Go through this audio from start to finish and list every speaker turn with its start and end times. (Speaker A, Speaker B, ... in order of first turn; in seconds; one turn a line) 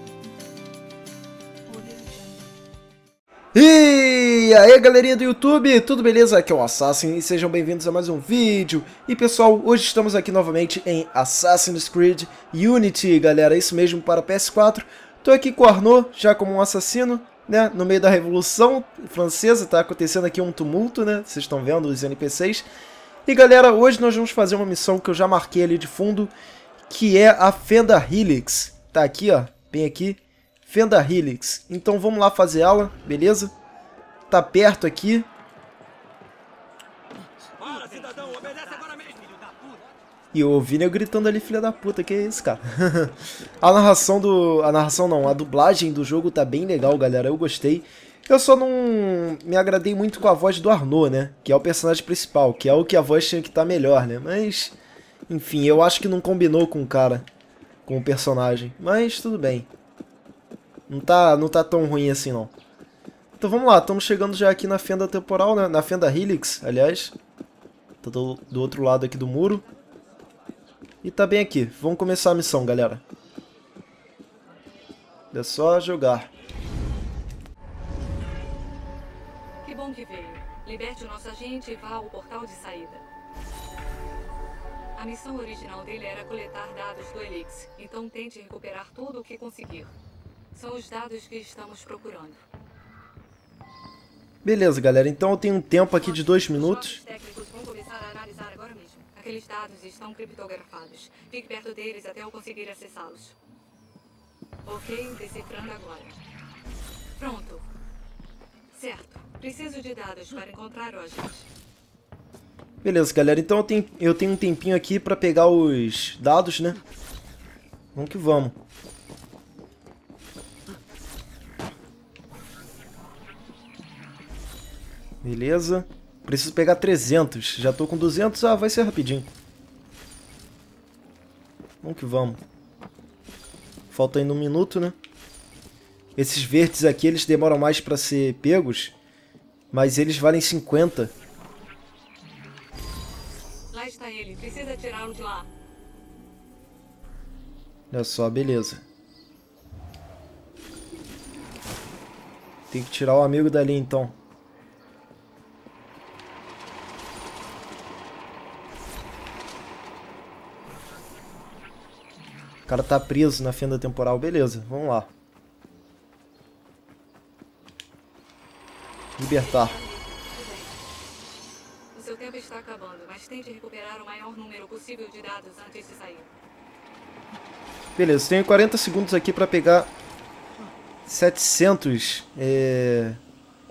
Speaker A: 3.5-22.7
Speaker A: 23.3-26.3
Speaker A: 26.9-33.5
Speaker A: 34.3-35.3
Speaker A: 40.3-54.8
Speaker A: 55.3-57.3
Speaker A: 57.9-59.7
Speaker A: 60.9-62.5
Speaker A: 63.4-67.2
Speaker A: 68.0-69.7
Speaker A: 71.0-73.0
Speaker A: 75.3-76.3
Speaker B: 79.6-83.0
Speaker B: 85.0-89.9
Speaker B: 90.5-92.4
Speaker A: 94.4-97.0
Speaker B: 96.0-103.4
Speaker B: 104.7-106.2
Speaker B: 107.2-107.7
Speaker B: 108.7-111.5
Speaker A: 112.8-116.8
Speaker A: 117.9-118.6
Speaker A: 125.2-129.3
Speaker A: 131.8-132.4
Speaker A: 133.9-135.0
Speaker A: 136.2-138.9
Speaker A: 139.7-141.1
Speaker B: 143.7-145.5
Speaker A: 147.9-148.8
Speaker A: 152.7-154.2
Speaker A: 162.7-165.1
Speaker A: 169.2-169.8
Speaker B: 169.2-170.8
Speaker B: 171.9-176.3
Speaker A: 178.0-179.9
Speaker A: 181.1-183.2